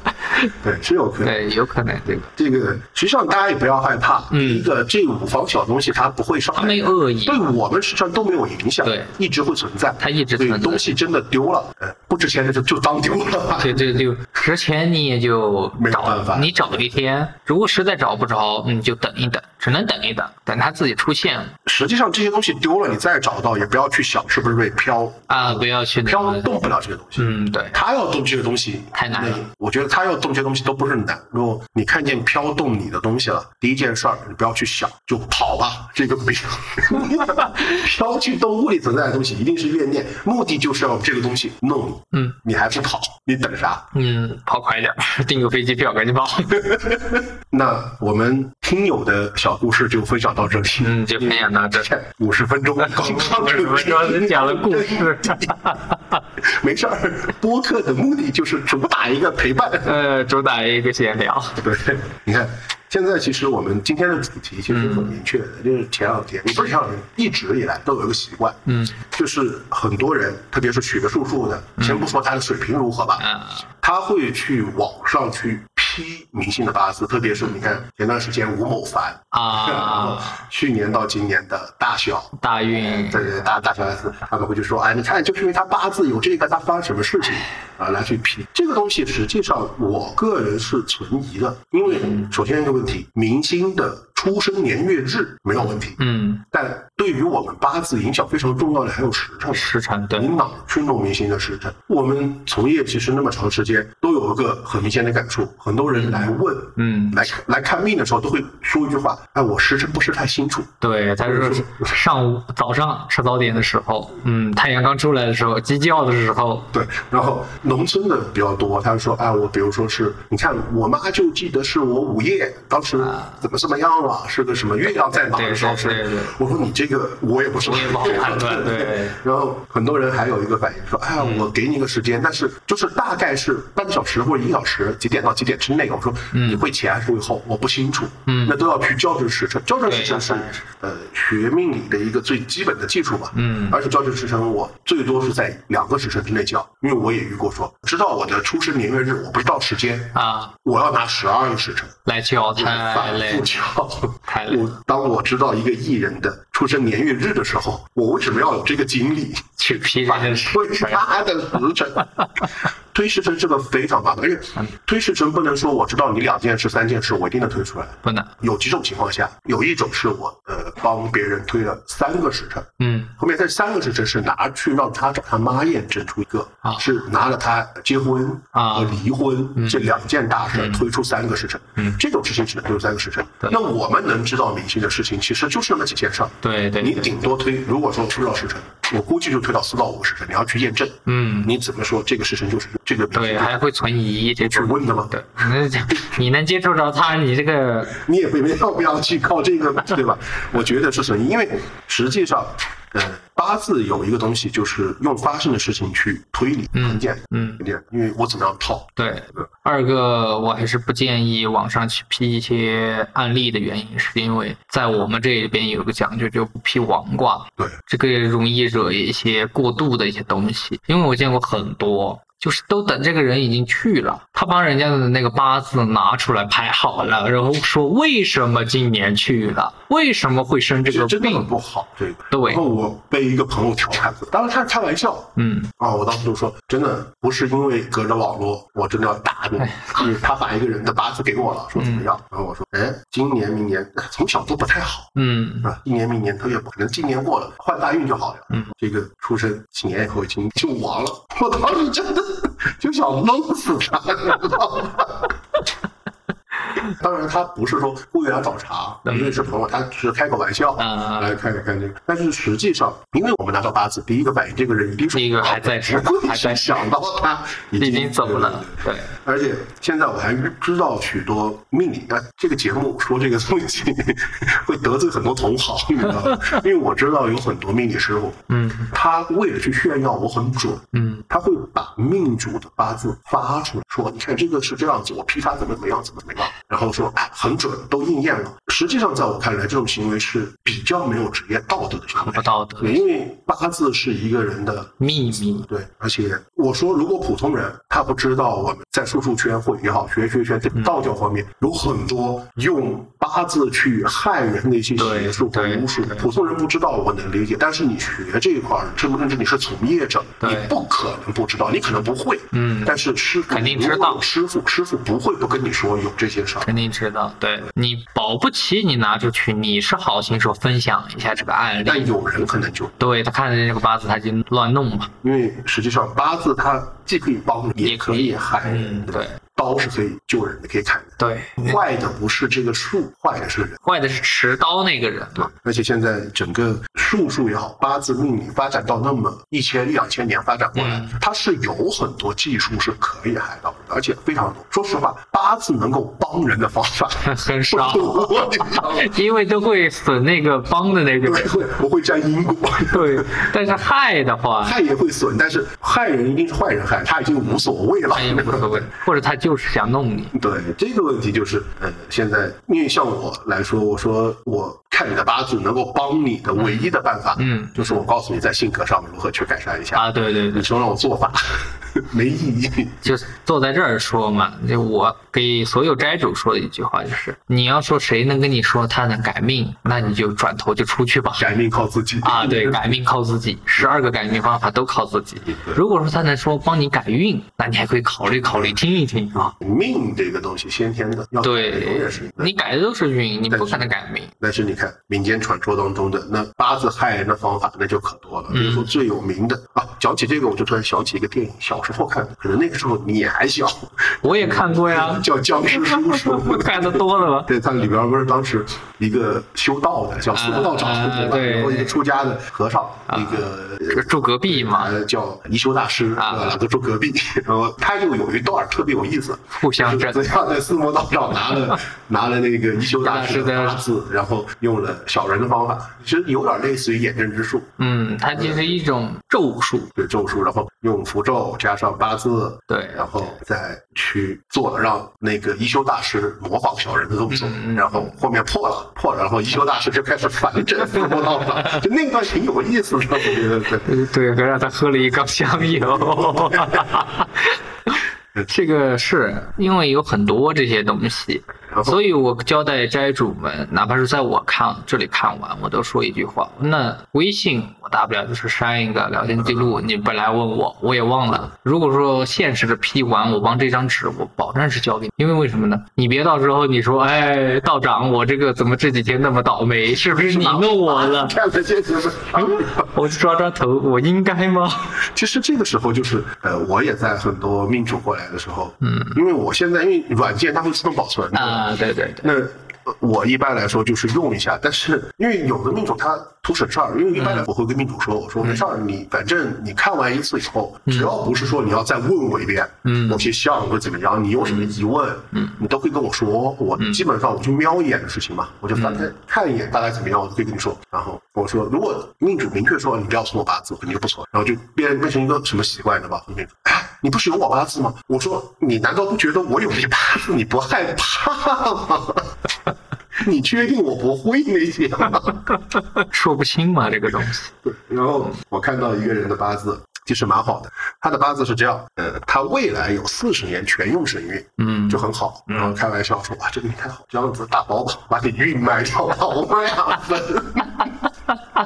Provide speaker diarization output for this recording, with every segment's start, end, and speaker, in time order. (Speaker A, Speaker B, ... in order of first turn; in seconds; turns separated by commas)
Speaker A: 0.6-1.4, Speaker B: 1.2-2.3, Speaker A: 2.4-13.9, Speaker B: 4.3-4.7, Speaker B: 6.5-7.5, Speaker B: 8.8-9.1, Speaker B: 10.0-10.9, Speaker B: 13.6-21.5, Speaker A: 15.8-16.8, Speaker A: 21.6-43.9, Speaker B: 25.3-26.5, Speaker B: 27.2-27.8, Speaker B: 28.9-29.4, Speaker B: 43.9-46.6, Speaker A: 46.5-55.6, Speaker B: 50.8-51.9, Speaker B: 52.8-56.1, Speaker A: 56.4-59.9, Speaker B: 59.9-61.6, Speaker A: 61.6-73.2, Speaker B: 64.7-65.2, Speaker B: 68.7-69.0, Speaker B: 71.8-72.1, Speaker B: 73.2-73.7, Speaker A: 73.8-110.7, Speaker B: 77.5-77.7, Speaker B: 79.3-80.4, Speaker B: 82.4-83.5, Speaker B: 91.8-92.3, Speaker B: 95.6-96.4, Speaker B: 99.5-100.3, Speaker B: 105.9-107.3, Speaker B: 110.8-116.7, Speaker A: 111.2-111.9, Speaker A: 116.7-152.0, Speaker B: 123.0-123.4, Speaker B: 124.8-126.3, Speaker B: 127.6-129.2, Speaker B: 131.2-131.5, Speaker B: 136.3-136.7, Speaker B: 138.3-138.6, Speaker B: 139.9-140.6, Speaker B: 143.3-143.8, Speaker B: 150.1-150.5, Speaker B: 152.1-153.5, Speaker A: 152.6-162.1, Speaker B: 154.3-154.7, Speaker B: 159.6-161.1, Speaker A: 162.9-193.6, Speaker B: 168.0-168.3, Speaker B: 172.8-173.1, Speaker B: 178.5-179.0, Speaker B: 179.6-179.9, Speaker B: 180.5-180.8, Speaker B: 186.4-187.1, Speaker B: 191.1-191.5, Speaker B: 193.1-197.9, Speaker A: 194.4-195.1, Speaker A: 197.9-209.4, Speaker B: 206.8-207.6, Speaker B: 209.0-231.5, Speaker A: 230.9-255.3, Speaker B: 232.3-232.6, Speaker B: 235.4-235.7, Speaker B: 239.6-240.1, Speaker B: 241.8-242.1, Speaker B: 245.2-245.7, Speaker A: 256.9-295.0, Speaker B: 259.1-259.5, Speaker B: 260.8-261.4, Speaker B: 265.1-266.9, Speaker B: 267.8-269.1, Speaker B: 278.5-278.9, Speaker B: 280.9-281.2, Speaker B: 292.2-293.0, Speaker B: 295.0-295.7, Speaker A: 295.6-316.7, Speaker B: 305.0-306.3, Speaker B: 310.4-310.7, Speaker B: 312.5-314.2, Speaker B: 316.6-322.1, Speaker A: 321.8-323.0, Speaker B: 323.0-325.1, Speaker A: 325.2-333.8, Speaker B: 327.8-329.4, Speaker B: 331.2-331.8, Speaker B: 333.8-335.5, Speaker A: 335.4-349.1, Speaker B: 340.8-341.2, Speaker B: 347.2-351.7, Speaker A: 351.2-353.5, Speaker B: 352.9-354.8, Speaker A: 354.6-358.9, Speaker B: 358.1-360.3, Speaker A: 360.3-373.1, Speaker B: 366.6-368.1, Speaker B: 369.9-370.7, Speaker B: 373.0-381.6, Speaker A: 381.4-383.0, Speaker B: 382.2-389.5, Speaker A: 385.5-385.8, Speaker A: 388.5-388.7, Speaker A: 389.4-392.5, Speaker B: 391.4-394.3, Speaker A: 393.5-427.7, Speaker B: 398.5-398.9, Speaker B: 404.2-407.5, Speaker B: 410.3-412.0, Speaker B: 413.1-414.9, Speaker B: 416.2-416.6, Speaker B: 419.6-420.3, Speaker B: 422.9-423.8, Speaker B: 427.8-429.9, Speaker A: 428.3-428.8, Speaker A: 429.9-443.9, Speaker B: 432.7-433.3, Speaker B: 437.3-438.1, Speaker B: 443.9-471.4, Speaker A: 446.0-446.9, Speaker A: 451.7-452.0, Speaker A: 459.4-459.7, Speaker A: 469.9-472.9, Speaker B: 472.3-474.9, Speaker A: 475.0-481.7, Speaker B: 478.8-479.2, Speaker B: 481.3-482.3, Speaker A: 482.2-512.3, Speaker B: 487.1-487.5, Speaker B: 488.4-488.7, Speaker B: 490.9-491.1, Speaker B: 492.9-493.3, Speaker B: 494.4-494.8, Speaker B: 498.8-499.1, Speaker A: 513.2-515.5, Speaker B: 515.9-517.5, Speaker A: 517.6-530.9, Speaker B: 524.6-525.8